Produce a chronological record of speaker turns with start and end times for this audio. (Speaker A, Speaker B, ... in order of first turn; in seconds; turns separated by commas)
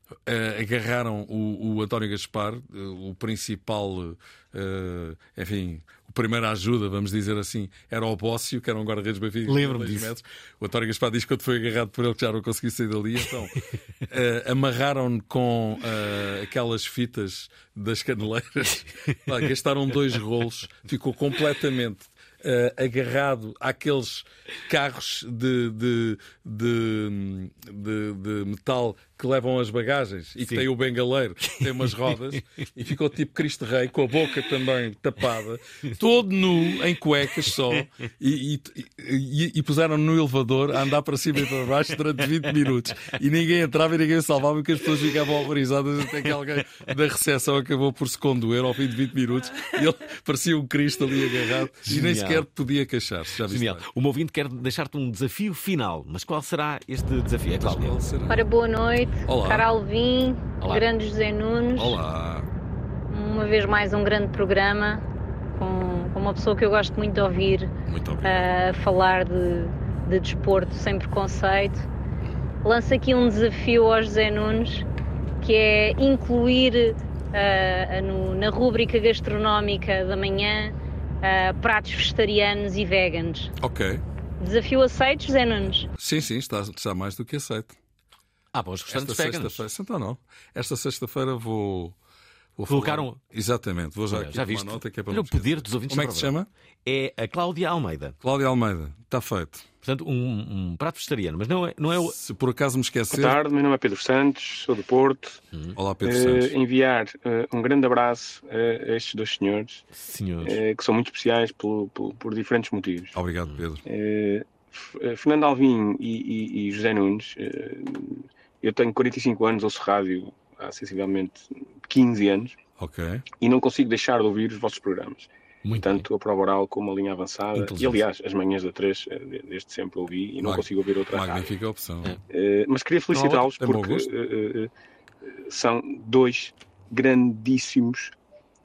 Speaker A: 0.3-53.8, Speaker B: 9.4-10.1, Speaker B: 51.8-52.5, Speaker B: 53.5-58.0, Speaker A: 57.6-58.4, Speaker C: 58.3-62.0, Speaker A: 59.2-59.7, Speaker A: 61.7-62.5, Speaker C: 63.1-65.0, Speaker C: 65.6-67.7, Speaker A: 67.9-68.5, Speaker C: 68.2-71.9, Speaker C: 72.6-74.8, Speaker C: 75.4-83.5, Speaker A: 83.6-84.0, Speaker C: 84.4-85.9, Speaker A: 86.0-87.8, Speaker B: 88.5-89.6, Speaker A: 88.9-92.0, Speaker A: 92.6-96.5, Speaker B: 92.7-93.2, Speaker B: 94.1-96.3, Speaker B: 96.9-98.2, Speaker A: 98.2-99.7, Speaker B: 99.8-102.2, Speaker A: 102.0-103.4, Speaker D: 103.1-105.4, Speaker A: 105.8-106.5, Speaker D: 106.0-109.9, Speaker B: 109.9-110.6, Speaker D: 110.4-113.2, Speaker A: 113.1-113.8, Speaker D: 113.8-122.6, Speaker A: 122.8-123.3, Speaker D: 123.4-125.3, Speaker B: 125.6-126.0, Speaker D: 125.8-131.5, Speaker B: 127.5-128.0, Speaker A: 130.4-132.1, Speaker D: 132.3-134.7, Speaker B: 133.2-133.4, Speaker A: 133.4-134.1, Speaker D: 135.2-138.1